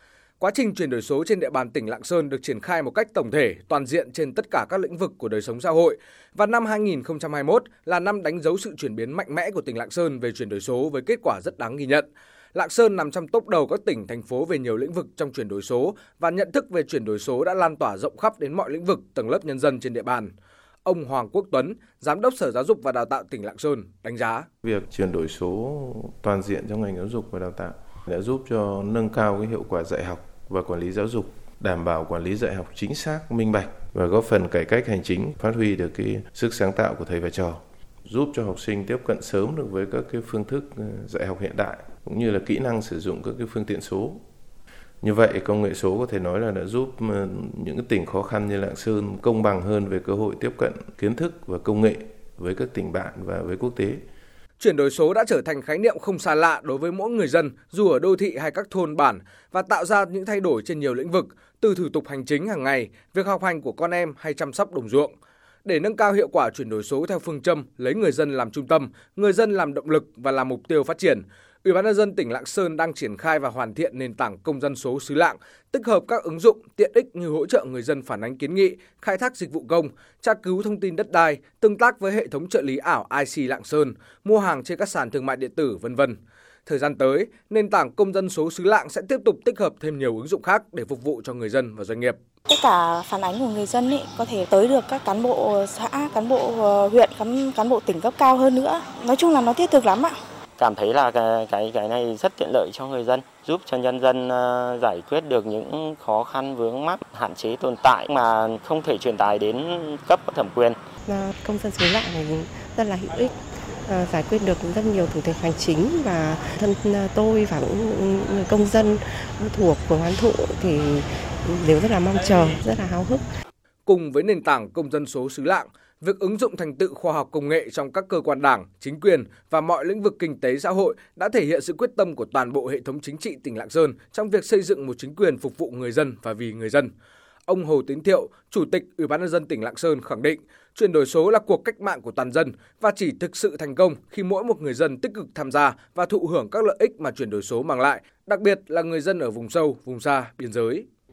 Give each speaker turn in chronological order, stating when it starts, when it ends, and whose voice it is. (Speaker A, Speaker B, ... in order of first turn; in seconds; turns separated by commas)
Speaker A: 0.4-20.3, Speaker A: 20.9-24.5, Speaker B: 24.6-44.2, Speaker B: 45.0-54.0, Speaker A: 54.6-92.2, Speaker C: 92.5-100.2, Speaker D: 100.6-110.7, Speaker C: 103.8-104.2, Speaker C: 105.1-107.9, Speaker C: 108.7-109.3, Speaker E: 111.1-113.3, Speaker E: 113.9-123.2, Speaker A: 123.9-136.9, Speaker A: 137.5-150.9